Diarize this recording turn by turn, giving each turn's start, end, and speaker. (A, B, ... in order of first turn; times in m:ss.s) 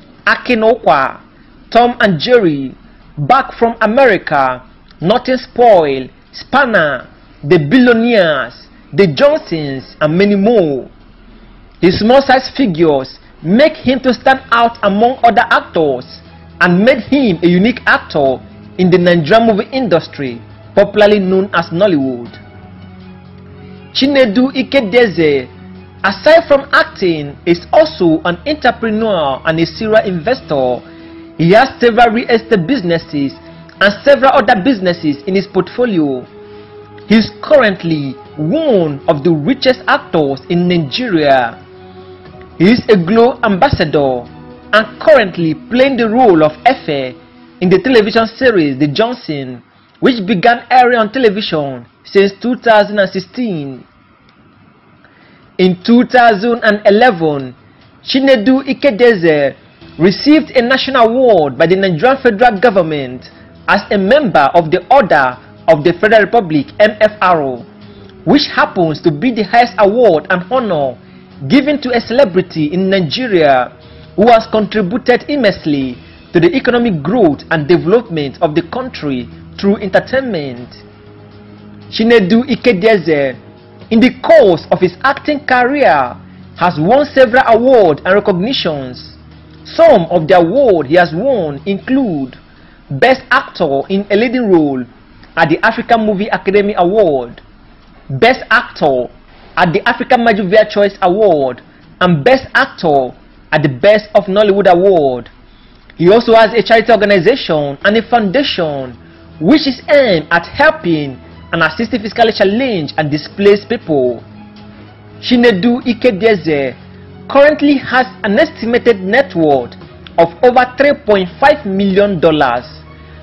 0:00.2-0:10.9 A
0:11.8-0:22.4 A
0:23.9-0:25.5 A
0:26.0-0:30.8 A
0:31.4-0:36.3 A
0:37.1-0:41.6 A
0:42.6-0:53.8 A
0:55.6-1:07.7 A
1:08.2-1:20.8 A
1:21.9-1:23.4 A
1:23.9-1:32.4 A
1:32.9-1:37.4 A
1:38.1-1:45.3 A
1:46.0-1:54.2 A
1:55.2-2:02.8 A